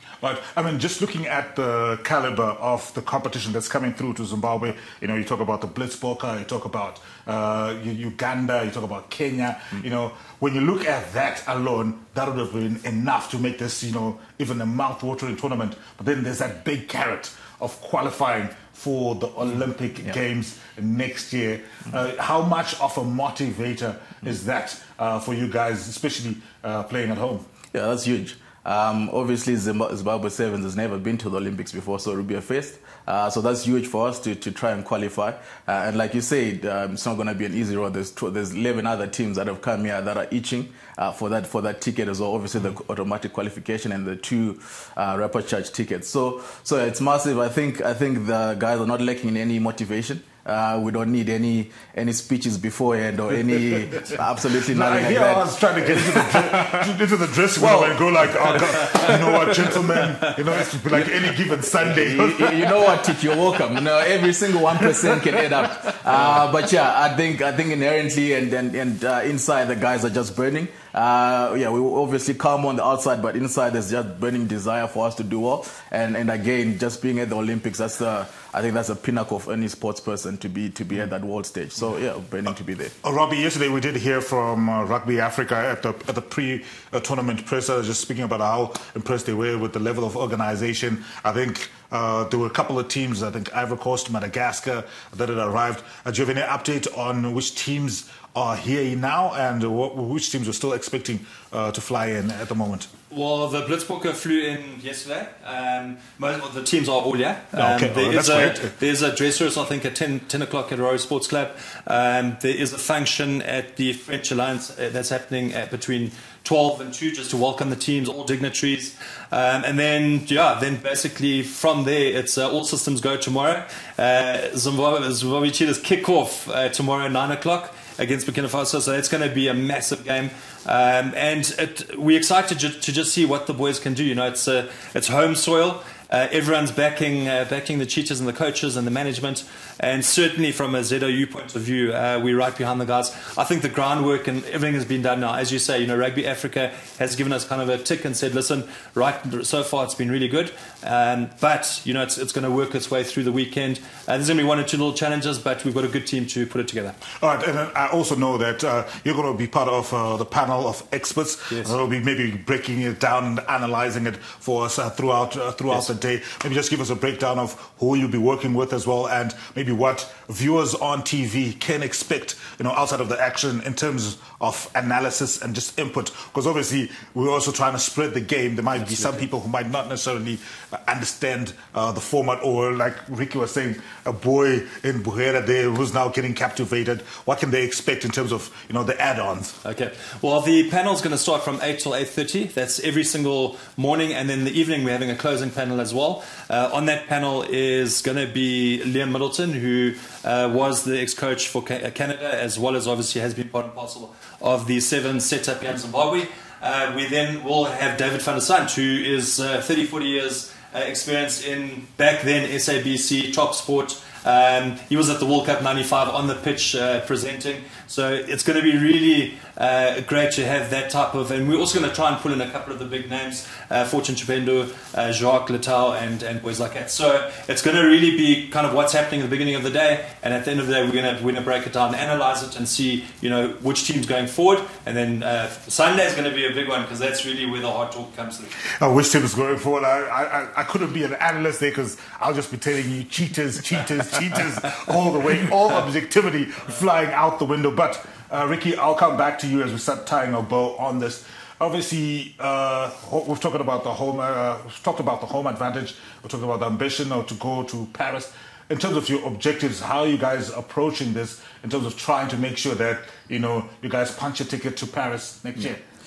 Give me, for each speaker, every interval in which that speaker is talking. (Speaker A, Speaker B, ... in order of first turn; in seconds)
Speaker A: 0.2-27.4, 54.7-62.9, 83.0-102.9, 107.5-108.7, 157.2-189.6, 238.8-265.8
Speaker B: 27.7-56.6, 61.8-82.9
Speaker C: 58.9-59.6, 103.1-157.0, 178.8-179.2, 189.6-238.5